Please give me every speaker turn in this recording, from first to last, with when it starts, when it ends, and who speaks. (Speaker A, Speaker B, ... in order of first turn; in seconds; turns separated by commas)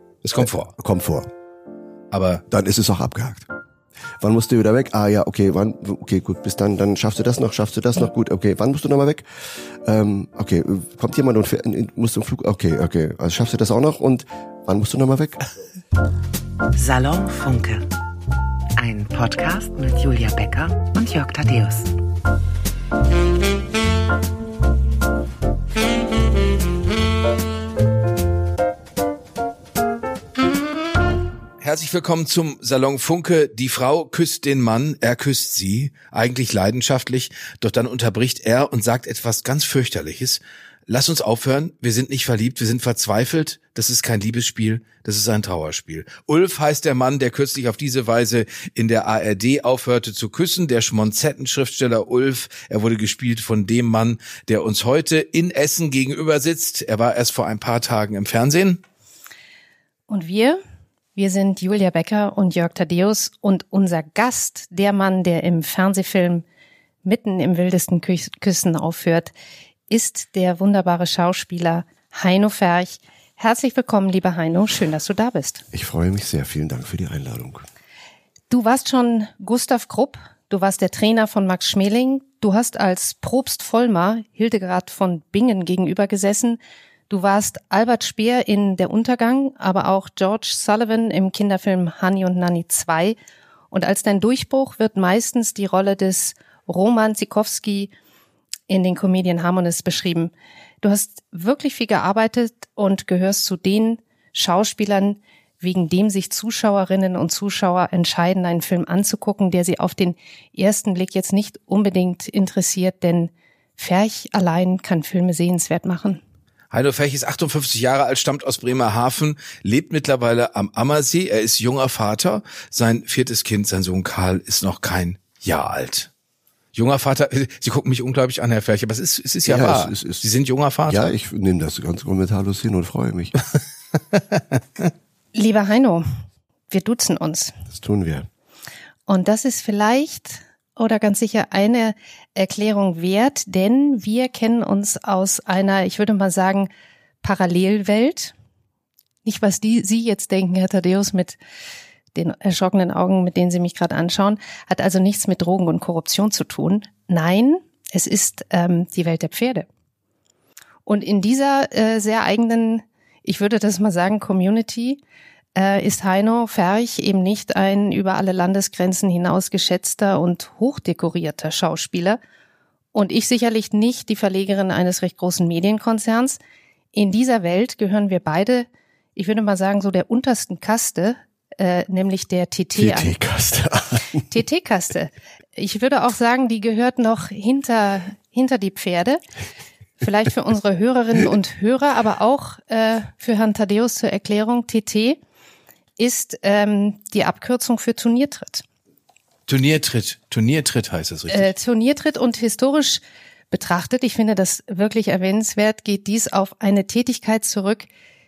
Speaker A: 0.2-0.7, Speaker B: 0.4-1.3, Speaker A: 2.1-2.4, Speaker B: 2.5-3.5, Speaker B: 4.2-9.2, Speaker B: 9.8-15.4, Speaker C: 16.8-17.9, Speaker C: 18.8-21.9, Speaker A: 31.6-58.8, Speaker D: 60.1-60.6, Speaker D: 61.1-66.4, Speaker D: 67.0-69.3, Speaker D: 69.9-75.6, Speaker B: 75.7-77.7, Speaker D: 78.5-86.6, Speaker D: 87.1-93.2, Speaker D: 93.7-97.9, Speaker D: 98.7-116.2, Speaker A: 116.7-126.1, Speaker A: 126.7-131.1, Speaker B: 129.5-130.3, Speaker B: 130.9-133.3, Speaker D: 135.3-136.1, Speaker D: 136.7-137.6, Speaker B: 137.7-138.3, Speaker D: 139.1-146.7, Speaker D: 147.2-148.3, Speaker D: 149.2-151.4, Speaker D: 152.2-159.7, Speaker D: 160.9-165.0, Speaker D: 165.6-172.2, Speaker D: 172.9-176.4, Speaker D: 176.9-183.1, Speaker B: 182.8-184.3, Speaker D: 184.3-189.2, Speaker D: 190.0-195.2, Speaker D: 196.0-198.6, Speaker A: 199.5-201.5, Speaker D: 201.3-203.0, Speaker D: 203.5-207.9